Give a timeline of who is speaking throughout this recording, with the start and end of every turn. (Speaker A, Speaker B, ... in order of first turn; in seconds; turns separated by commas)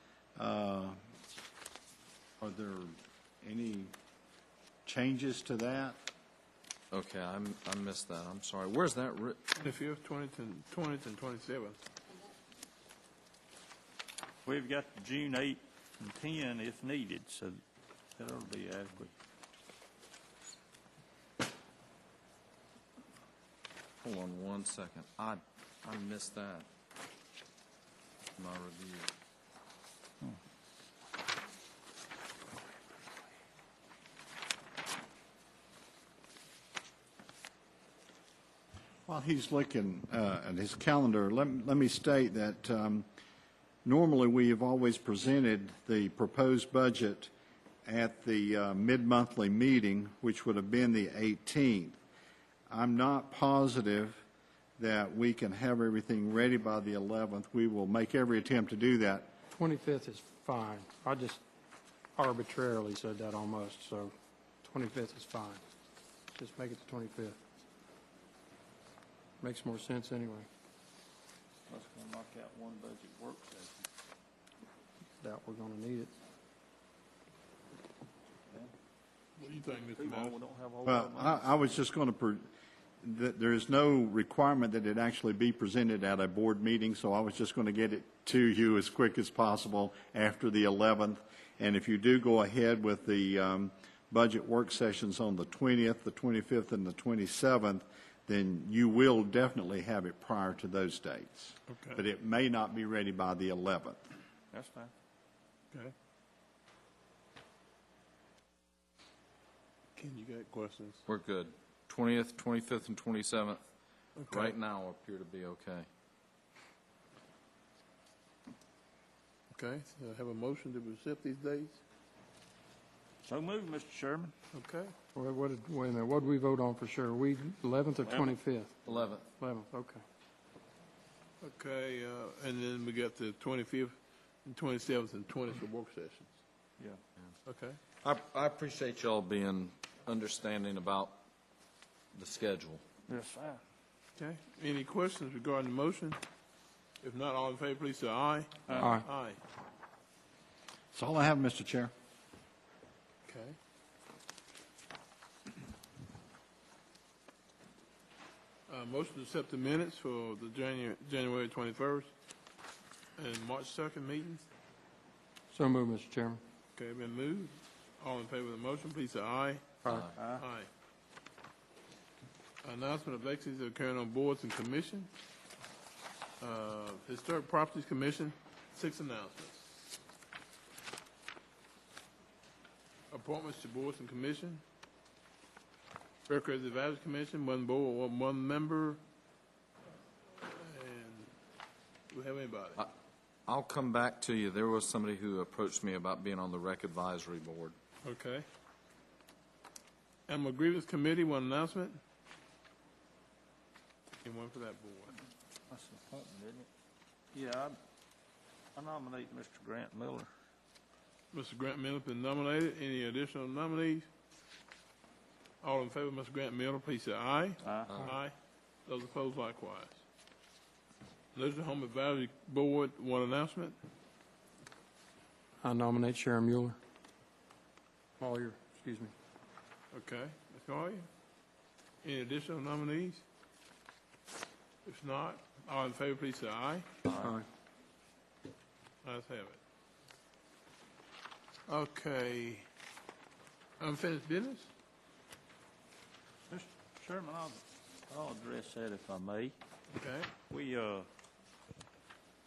Speaker A: 0.3-1.0, Speaker A: 2.4-3.9, Speaker A: 4.8-6.0, Speaker B: 6.9-9.4, Speaker C: 9.6-11.8, Speaker D: 14.4-17.6, Speaker D: 18.2-19.1, Speaker B: 24.0-26.7, Speaker B: 28.4-29.1, Speaker A: 39.0-43.0, Speaker A: 43.8-47.3, Speaker A: 47.9-52.0, Speaker A: 52.7-54.2, Speaker A: 54.8-59.3, Speaker E: 59.6-61.4, Speaker E: 62.1-65.6, Speaker E: 66.3-67.4, Speaker E: 69.4-70.5, Speaker D: 71.7-73.8, Speaker E: 75.2-76.1, Speaker C: 79.4-80.4, Speaker D: 79.6-81.8, Speaker A: 80.8-82.5, Speaker A: 83.0-104.0, Speaker C: 101.7-102.0, Speaker D: 104.5-104.9, Speaker C: 110.0-111.0, Speaker B: 111.1-113.6, Speaker C: 114.2-114.5, Speaker B: 114.3-115.9, Speaker C: 119.5-121.8, Speaker D: 123.2-124.3, Speaker C: 124.5-124.9, Speaker E: 125.1-128.8, Speaker B: 128.8-129.2, Speaker E: 129.4-130.0, Speaker C: 131.4-136.3, Speaker C: 137.4-137.8, Speaker B: 138.0-141.2, Speaker B: 142.1-142.8, Speaker D: 143.1-143.6, Speaker C: 144.2-146.2, Speaker C: 147.0-149.4, Speaker D: 148.7-148.9, Speaker E: 148.8-149.1, Speaker A: 150.9-151.9, Speaker C: 153.3-153.6, Speaker C: 158.7-162.1, Speaker C: 163.2-164.4, Speaker E: 165.5-166.4, Speaker C: 166.7-169.7, Speaker E: 169.8-170.1, Speaker D: 170.2-170.4, Speaker C: 170.2-170.7, Speaker C: 172.6-175.1, Speaker C: 176.4-179.6, Speaker C: 183.1-184.6, Speaker C: 186.3-189.0, Speaker C: 190.3-191.3, Speaker C: 192.1-192.8, Speaker B: 193.5-197.7, Speaker C: 198.0-198.4, Speaker C: 200.3-202.0, Speaker C: 204.2-205.2, Speaker D: 205.7-206.7, Speaker D: 207.3-207.8, Speaker D: 208.8-210.3, Speaker C: 211.3-214.1, Speaker C: 215.6-218.3, Speaker D: 217.6-217.9, Speaker C: 218.8-220.0, Speaker C: 221.3-223.8, Speaker E: 225.6-226.8, Speaker E: 228.2-229.1, Speaker C: 229.9-231.1, Speaker C: 232.0-233.2, Speaker C: 234.8-236.9, Speaker E: 237.2-237.4, Speaker C: 239.0-239.6, Speaker C: 241.7-242.7, Speaker C: 243.8-244.7, Speaker D: 246.5-249.5, Speaker C: 249.9-250.3, Speaker D: 250.5-251.1